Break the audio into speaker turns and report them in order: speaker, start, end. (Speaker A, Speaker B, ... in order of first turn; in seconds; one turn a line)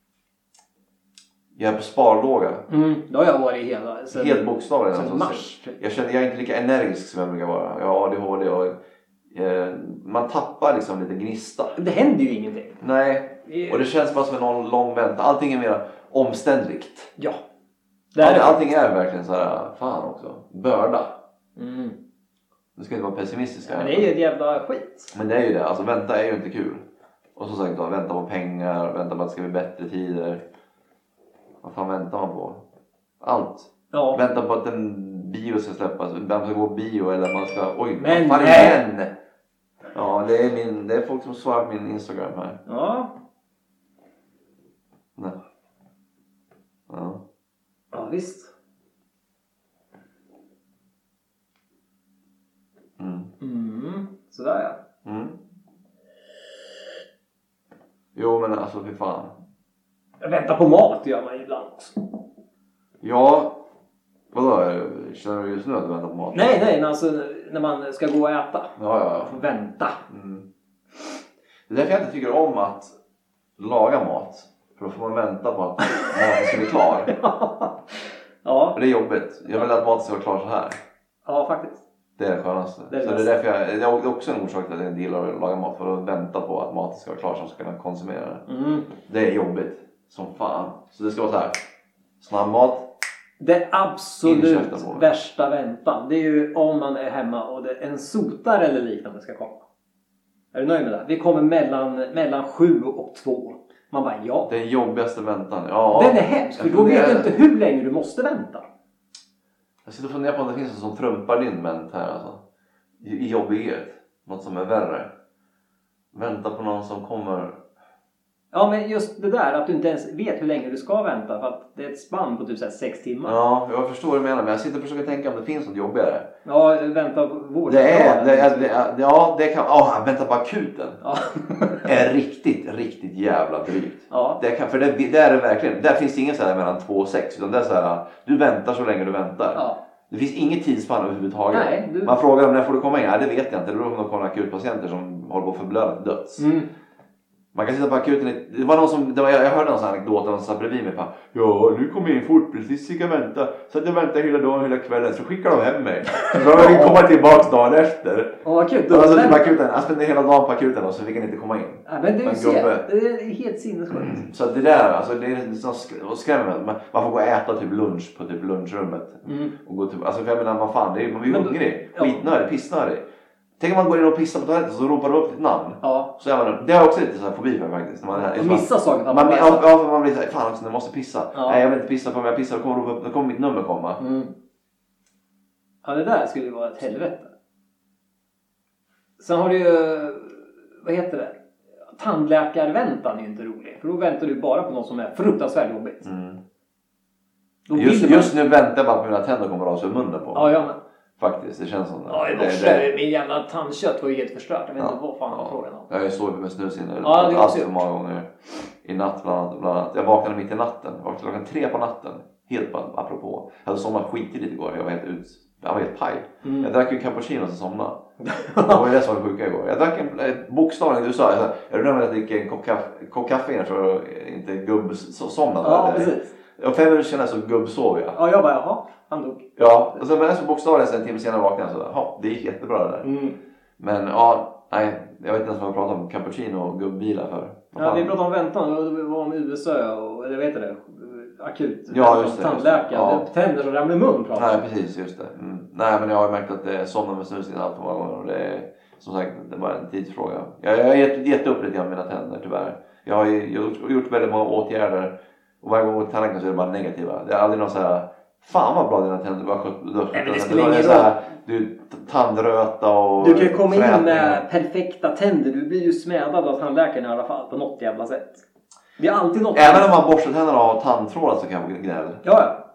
Speaker A: 1.6-2.6
Speaker B: 2.7-5.8
Speaker A: 4.1-8.8
Speaker A: 9.3-11.8
Speaker B: 11.8-12.8
Speaker A: 12.8-17.1
Speaker B: 13.5-13.8
Speaker B: 18.1-18.6
Speaker A: 18.2-21.2
Speaker B: 21.6-22.0
Speaker A: 22.8-24.1
Speaker B: 23.7-25.1
Speaker A: 25.1-26.8
Speaker A: 27.4-30.4
Speaker A: 31.6-32.6
Speaker A: 33.2-39.1
Speaker B: 33.9-34.2
Speaker B: 38.0-38.8
Speaker A: 39.9-42.6
Speaker B: 42.7-43.1
Speaker A: 46.9-47.2
Speaker B: 47.9-48.5
Speaker A: 53.0-53.3
Speaker B: 53.4-54.8
Speaker A: 55.0-55.4
Speaker A: 58.1-59.3
Speaker B: 60.2-62.1
Speaker A: 63.0-63.6
Speaker A: 64.3-66.7
Speaker B: 66.3-70.0
Speaker A: 68.8-69.4
Speaker A: 70.1-70.5
Speaker A: 71.7-72.9
Speaker A: 73.6-77.1
Speaker B: 76.0-76.5
Speaker B: 77.1-78.8
Speaker A: 78.7-80.8
Speaker B: 81.2-81.8
Speaker A: 82.2-88.5
Speaker B: 82.9-83.3
Speaker B: 88.5-88.9
Speaker A: 89.0-91.6
Speaker A: 92.2-92.9
Speaker B: 93.4-99.6
Speaker A: 94.2-95.1
Speaker B: 100.5-104.5
Speaker A: 104.5-107.3
Speaker B: 105.9-108.7
Speaker A: 109.8-112.4
Speaker A: 113.0-115.1
Speaker A: 116.1-117.6
Speaker B: 118.5-123.4
Speaker A: 123.2-126.3
Speaker B: 126.5-128.7
Speaker A: 127.7-131.0
Speaker B: 131.0-131.9
Speaker A: 131.8-146.5
Speaker B: 134.1-134.4
Speaker B: 141.5-142.2
Speaker B: 146.4-146.7
Speaker A: 147.5-162.9
Speaker B: 156.2-157.0
Speaker B: 158.4-159.5
Speaker B: 161.9-164.2
Speaker A: 163.9-173.0
Speaker B: 169.2-169.5
Speaker B: 171.2-172.2
Speaker A: 173.6-184.0
Speaker B: 175.8-176.1
Speaker B: 178.1-179.7
Speaker B: 181.3-181.6
Speaker B: 184.0-184.3
Speaker B: 185.8-187.3
Speaker B: 189.2-191.4
Speaker B: 192.0-196.1
Speaker A: 196.0-196.4
Speaker B: 197.7-198.3
Speaker A: 197.7-200.7
Speaker B: 200.3-200.8
Speaker A: 201.2-202.9
Speaker B: 202.1-205.9
Speaker A: 204.8-208.3
Speaker B: 207.0-207.8
Speaker A: 208.8-218.0
Speaker B: 216.4-216.7
Speaker B: 218.2-218.9
Speaker A: 218.7-228.2
Speaker B: 225.6-226.3
Speaker B: 228.2-229.5
Speaker A: 229.6-233.1
Speaker B: 233.0-233.4
Speaker A: 233.8-238.2
Speaker B: 237.7-244.7
Speaker A: 241.9-243.2
Speaker A: 244.3-264.4
Speaker B: 260.1-261.2
Speaker B: 263.2-268.4
Speaker B: 269.0-270.0
Speaker A: 269.5-272.2
Speaker B: 272.2-272.6